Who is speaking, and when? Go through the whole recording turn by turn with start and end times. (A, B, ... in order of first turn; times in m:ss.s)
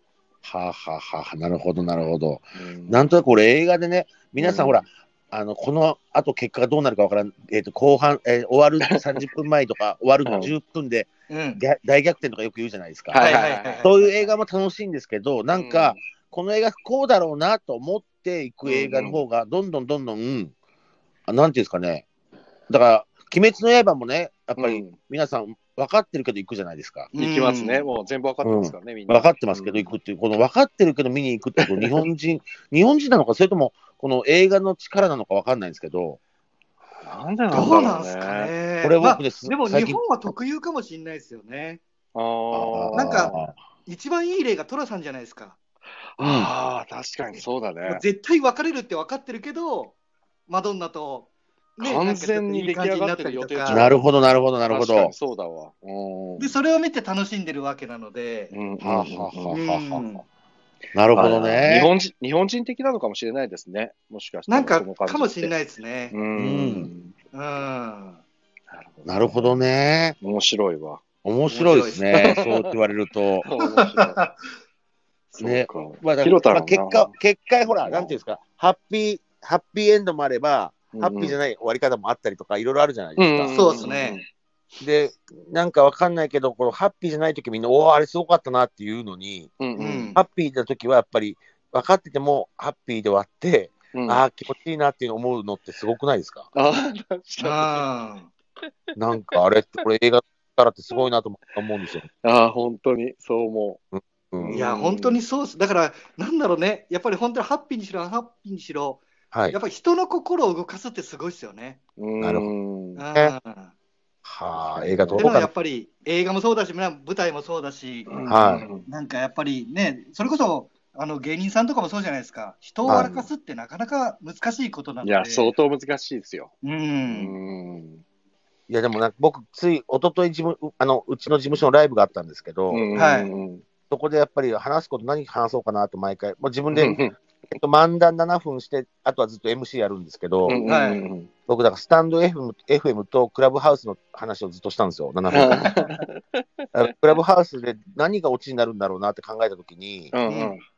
0:00.4-0:20.5 A
0:02.6-0:03.1 B
0:04.4-0:04.8 B
0:08.9-0:09.3 B
0:10.2-0:10.5 B
0:11.3-0:11.6 C
0:13.1-0:13.9 B
0:13.2-0:14.3 C
0:15.5-0:16.0 B
0:18.6-0:19.2 B
0:21.3-0:22.0 A
0:22.7-0:27.1 A
0:24.6-0:25.0 B
0:27.1-0:29.9 B
0:27.2-0:27.9 C
0:28.4-0:36.2 A
0:31.6-0:32.0 B
0:37.0-0:38.5 B
0:37.5-0:41.8 C
0:38.8-0:40.0 A
0:42.2-0:43.5 B
0:42.5-0:43.5 A
0:43.0-0:43.3 C
0:43.9-0:45.6 C
0:46.2-0:48.0 B
0:46.2-0:46.5 A
0:47.9-0:50.0 C
0:50.5-0:53.9 C
0:51.8-0:54.1 B
0:53.7-0:55.1 A
0:54.7-0:56.6 B
0:56.4-0:58.5 C
0:58.5-0:59.6 B
0:58.8-1:00.0 A
0:59.5-1:00.2 C
1:00.9-1:01.9 A
1:01.1-1:05.5 B
1:04.5-1:06.2 C
1:06.1-1:07.1 B
1:06.4-1:06.9 A
1:07.3-1:08.2 C
1:08.7-1:09.6 B
1:09.0-1:10.2 A
1:10.2-1:11.0 B
1:11.2-1:13.5 A
1:11.5-1:12.4 C
1:12.1-1:12.8 B
1:13.4-1:14.2 B
1:13.6-1:14.3 C
1:15.3-1:17.1 B
1:15.4-1:24.0 A
1:17.8-1:18.2 B
1:20.9-1:21.4 B
1:23.2-1:24.2 B
1:23.5-1:24.2 C
1:24.8-1:29.5 A
1:29.6-1:30.1 B
1:29.8-1:30.2 C
1:30.2-1:36.5 A
1:33.9-1:34.2 B
1:36.6-1:37.9 B
1:37.4-1:38.3 C
1:39.0-1:42.1 A
1:42.2-1:43.8 B
1:43.9-1:44.6 A
1:44.4-1:45.2 B
1:44.5-1:51.8 C
1:49.3-1:49.6 A
1:52.0-1:53.0 B
1:52.2-1:52.5 A
1:53.0-1:53.7 C
1:54.2-1:55.5 A
1:54.5-1:55.3 B
1:55.2-1:58.2 C
1:58.1-1:58.9 B
1:58.3-1:58.7 A
1:58.7-2:05.6 C
2:02.9-2:03.3 B
2:02.9-2:03.1 A
2:05.0-2:06.5 B
2:06.6-2:07.4 C
2:07.1-2:08.0 B
2:08.7-2:12.9 A
2:12.7-2:13.6 B
2:13.0-2:13.3 C
2:13.9-2:20.6 A
2:16.7-2:17.2 B
2:20.4-2:21.3 B
2:20.6-2:21.0 C
2:21.5-2:25.8 A
2:25.3-2:26.9 B
2:25.5-2:26.0 C
2:26.7-2:30.1 A
2:30.1-2:30.6 B
2:30.3-2:30.6 C